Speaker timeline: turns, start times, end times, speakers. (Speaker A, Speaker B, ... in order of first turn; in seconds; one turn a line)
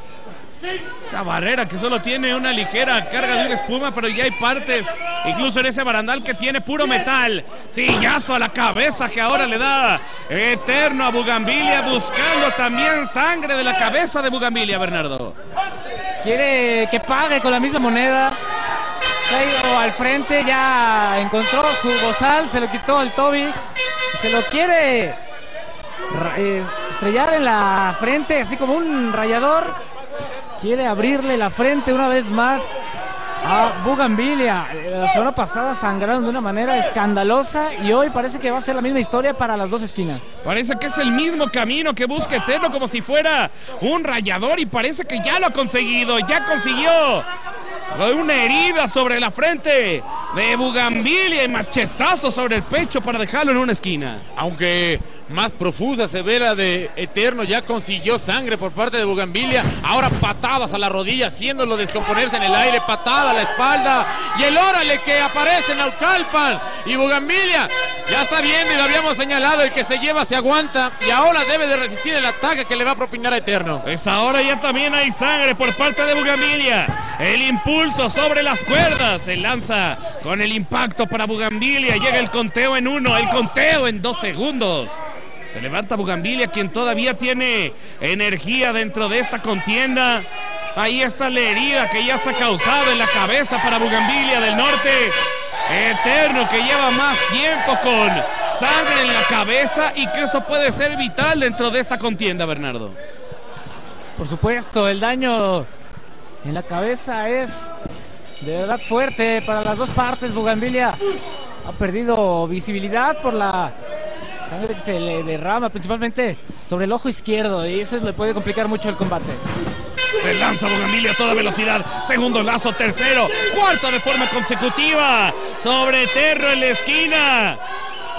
Speaker A: 1.0-15.3
Speaker B: 16.2-18.4
Speaker B: 19.3-23.6
Speaker B: 24.1-25.2
Speaker B: 26.1-29.8
Speaker B: 30.6-32.8
Speaker B: 33.4-40.2
Speaker A: 40.4-47.3
Speaker A: 47.9-54.2
Speaker C: 54.4-73.8
Speaker A: 73.8-103.0
Speaker B: 104.2-105.7
Speaker B: 106.4-107.7
Speaker B: 108.4-111.0
Speaker B: 111.6-113.7
Speaker B: 114.5-119.4
Speaker A: 120.2-127.6